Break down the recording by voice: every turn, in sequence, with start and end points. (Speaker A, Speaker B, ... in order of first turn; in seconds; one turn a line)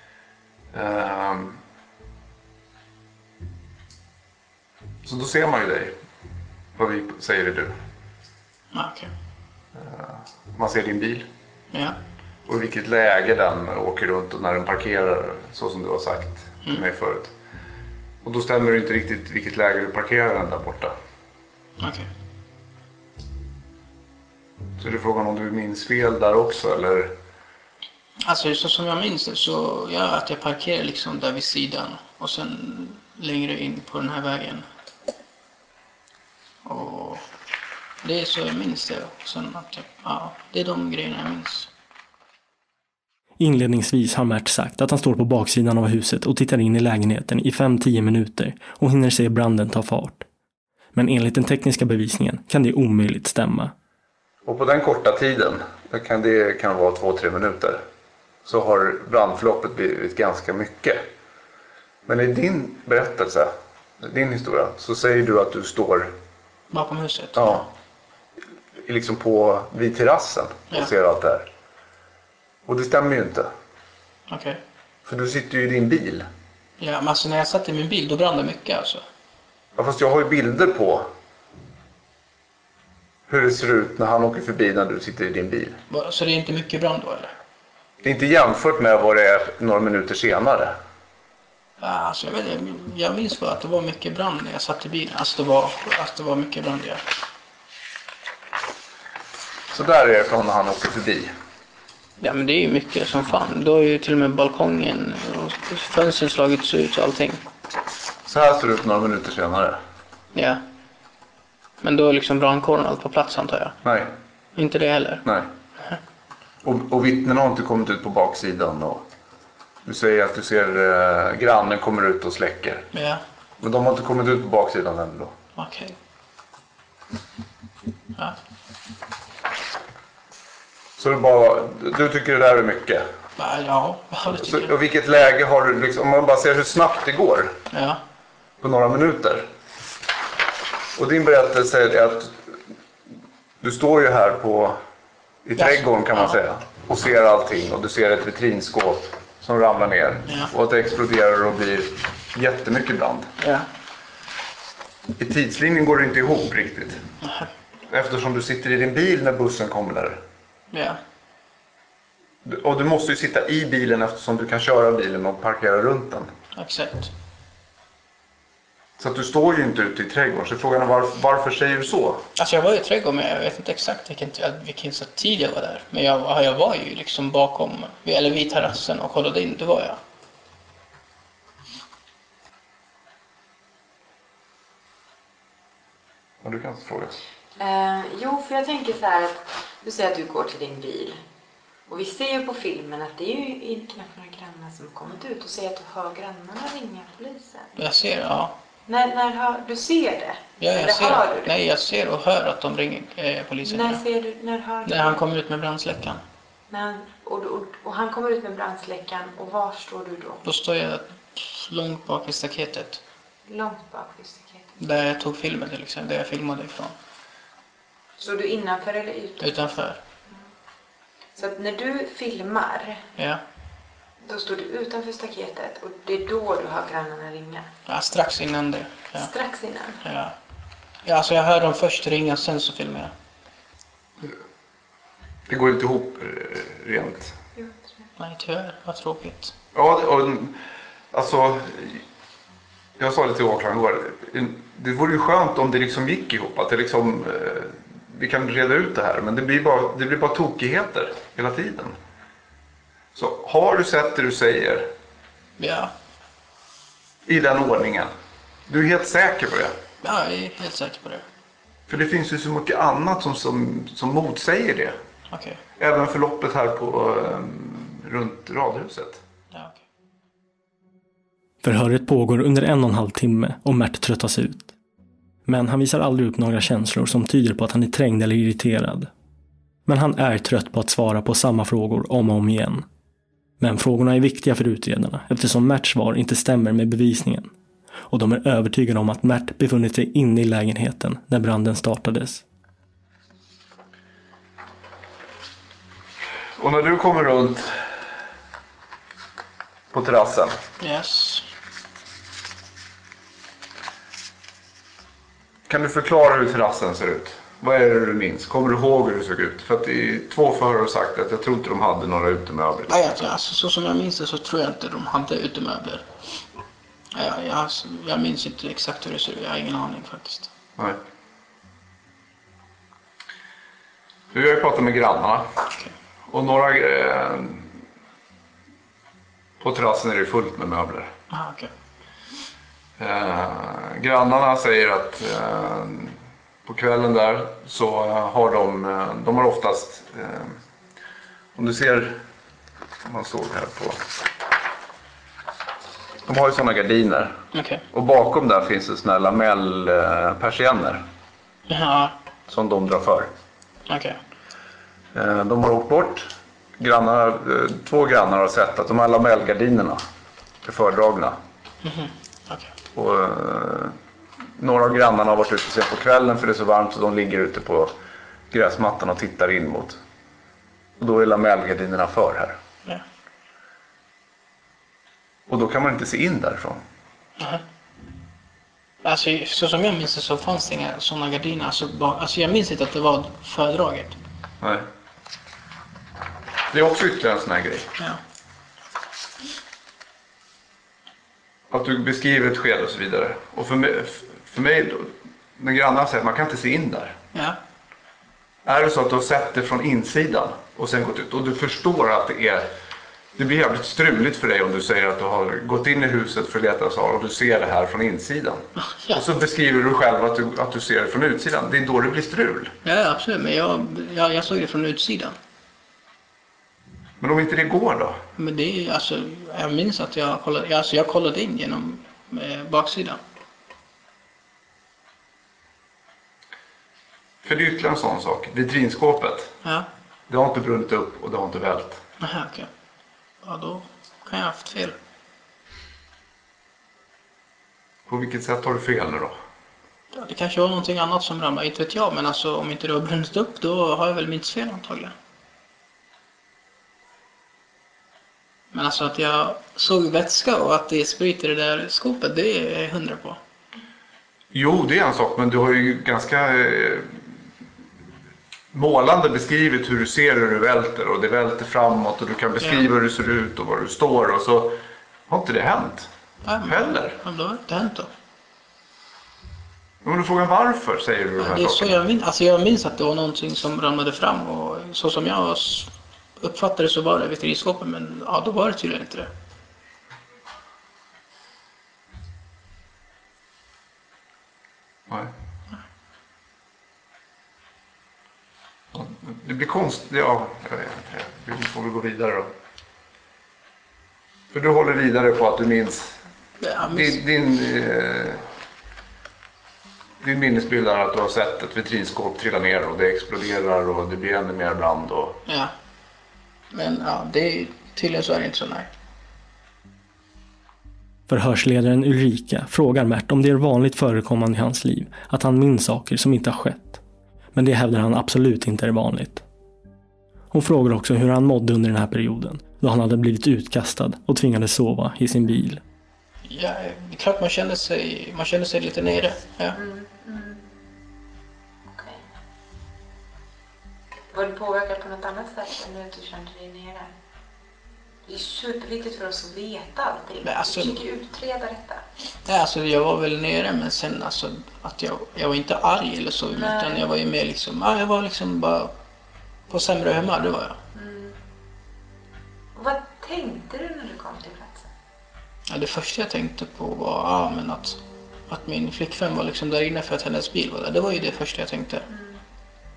Speaker A: 0.7-1.6
Speaker A: 5.0-5.9
Speaker A: 6.8-7.7
Speaker B: 8.7-9.1
Speaker A: 9.7-11.3
Speaker B: 11.7-12.0
Speaker A: 12.4-17.3
Speaker A: 18.2-20.9
Speaker B: 21.8-22.1
Speaker A: 24.8-27.1
Speaker B: 28.2-34.6
Speaker B: 36.6-37.2
Speaker B: 38.0-41.7
Speaker C: 43.4-50.2
Speaker C: 50.9-53.7
Speaker A: 54.5-57.8
Speaker A: 58.4-61.0
Speaker A: 62.1-66.1
Speaker B: 66.7-67.6
Speaker A: 67.3-67.7
Speaker A: 68.8-71.5
Speaker A: 72.7-73.5
Speaker B: 74.3-74.6
Speaker A: 75.0-76.3
Speaker B: 76.8-79.0
Speaker A: 79.8-81.1
Speaker A: 83.3-85.8
Speaker B: 85.9-87.3
Speaker A: 88.0-90.7
Speaker B: 91.8-97.0
Speaker A: 99.7-101.3
Speaker B: 102.2-107.4
Speaker A: 108.2-109.8
Speaker B: 110.3-110.6
Speaker B: 111.8-113.8
Speaker A: 113.8-114.1
Speaker B: 114.5-115.2
Speaker A: 115.2-115.5
Speaker A: 116.6-119.0
Speaker A: 119.8-122.9
Speaker B: 122.9-123.2
Speaker A: 123.6-125.3
Speaker B: 125.5-126.0
Speaker A: 131.0-133.1
Speaker B: 133.4-134.7
Speaker A: 134.4-137.6
Speaker B: 137.7-138.0
Speaker A: 138.6-139.5
Speaker A: 140.9-142.4
Speaker A: 143.6-144.8
Speaker A: 145.4-153.3
Speaker B: 145.6-146.4
Speaker B: 150.3-150.5
Speaker B: 153.4-153.7
Speaker A: 155.2-157.0
Speaker B: 157.2-157.5
Speaker A: 157.9-160.2
Speaker B: 160.7-161.0
Speaker A: 162.4-166.3
Speaker B: 166.6-167.1
Speaker A: 169.0-172.2
Speaker B: 172.3-180.0
Speaker A: 186.4-187.2
Speaker D: 187.6-191.2
Speaker D: 191.9-197.7
Speaker B: 197.8-198.5
Speaker D: 198.8-201.5
Speaker B: 200.6-204.0
Speaker D: 203.6-205.2
Speaker B: 204.8-206.2
Speaker D: 206.7-210.4
Speaker B: 210.4-213.0
Speaker D: 213.5-214.7
Speaker B: 214.8-216.9
Speaker D: 218.2-219.7
Speaker B: 219.4-220.0
Speaker D: 221.3-223.1
Speaker B: 223.2-223.4
Speaker D: 224.2-227.7
Speaker B: 227.9-229.3
Speaker D: 229.1-230.0
Speaker B: 230.0-230.3
Speaker B: 231.0-233.1
Speaker A: 235.5-237.3
Speaker D: 237.6-238.1
Speaker B: 238.2-239.5
Speaker A: 239.7-240.6
Speaker A: 241.1-242.0
Speaker A: 243.0-251.9
Speaker A: 253.1-254.9
Speaker B: 255.6-255.9
Speaker A: 257.3-258.1
Speaker A: 258.7-259.8
Speaker B: 260.0-261.2
Speaker A: 261.9-264.9
Speaker B: 265.3-265.6
Speaker A: 265.8-269.2
Speaker B: 269.5-269.8
Speaker C: 271.6-274.7
Speaker C: 275.4-279.1
Speaker C: 279.9-282.8
Speaker C: 283.6-287.5
Speaker C: 288.1-292.4
Speaker A: 296.6-297.8
Speaker A: 299.9-300.6
Speaker B: 300.8-301.4
Speaker A: 305.7-313.2
Speaker B: 312.9-316.1
Speaker B: 317.1-320.5
Speaker A: 324.3-325.4
Speaker A: 326.3-327.7
Speaker A: 329.6-331.1
Speaker B: 331.3-331.7
Speaker A: 333.0-340.6
Speaker A: 341.6-342.2
Speaker A: 343.0-344.0
Speaker A: 346.2-351.0
Speaker B: 347.5-347.8
Speaker B: 351.7-352.1
Speaker A: 352.5-353.3
Speaker B: 353.9-354.2
Speaker A: 355.1-360.0
Speaker A: 360.6-361.4
Speaker B: 361.8-362.7
Speaker A: 362.9-363.9
Speaker A: 364.6-367.9
Speaker A: 368.5-370.0
Speaker A: 371.0-372.6
Speaker A: 375.5-376.8
Speaker B: 379.0-384.1
Speaker A: 384.6-384.9
Speaker A: 386.7-387.9
Speaker A: 391.7-397.2
Speaker A: 398.6-402.7
Speaker A: 403.4-412.7
Speaker B: 408.8-409.2
Speaker B: 412.8-415.4
Speaker A: 417.2-418.2
Speaker B: 418.4-423.2
Speaker A: 427.4-429.5
Speaker B: 429.6-429.9
Speaker A: 430.3-432.0
Speaker B: 432.2-432.7
Speaker B: 433.4-435.0
Speaker A: 438.1-439.4
Speaker B: 440.1-445.1
Speaker B: 448.7-453.4
Speaker A: 454.5-457.1
Speaker A: 458.7-464.8
Speaker B: 462.6-462.9
Speaker A: 465.3-466.1
Speaker B: 466.4-468.1
Speaker A: 466.6-467.2
Speaker A: 470.0-472.0
Speaker B: 471.4-479.3
Speaker A: 488.9-492.5
Speaker A: 494.5-496.2
Speaker B: 496.6-497.2
Speaker A: 496.8-498.4
Speaker A: 500.2-505.4
Speaker B: 505.5-505.7
Speaker B: 506.7-508.9
Speaker C: 511.3-517.0
Speaker C: 517.5-519.4
Speaker C: 520.5-525.8
Speaker B: 526.5-529.8
Speaker D: 529.7-530.6
Speaker D: 531.9-532.2
Speaker D: 534.3-537.1
Speaker D: 538.2-542.0
Speaker B: 540.4-541.0
Speaker B: 542.4-548.9
Speaker D: 546.5-547.0
Speaker B: 549.7-550.8
Speaker D: 550.9-551.4
Speaker D: 552.7-554.9
Speaker B: 555.7-562.0
Speaker D: 562.1-562.4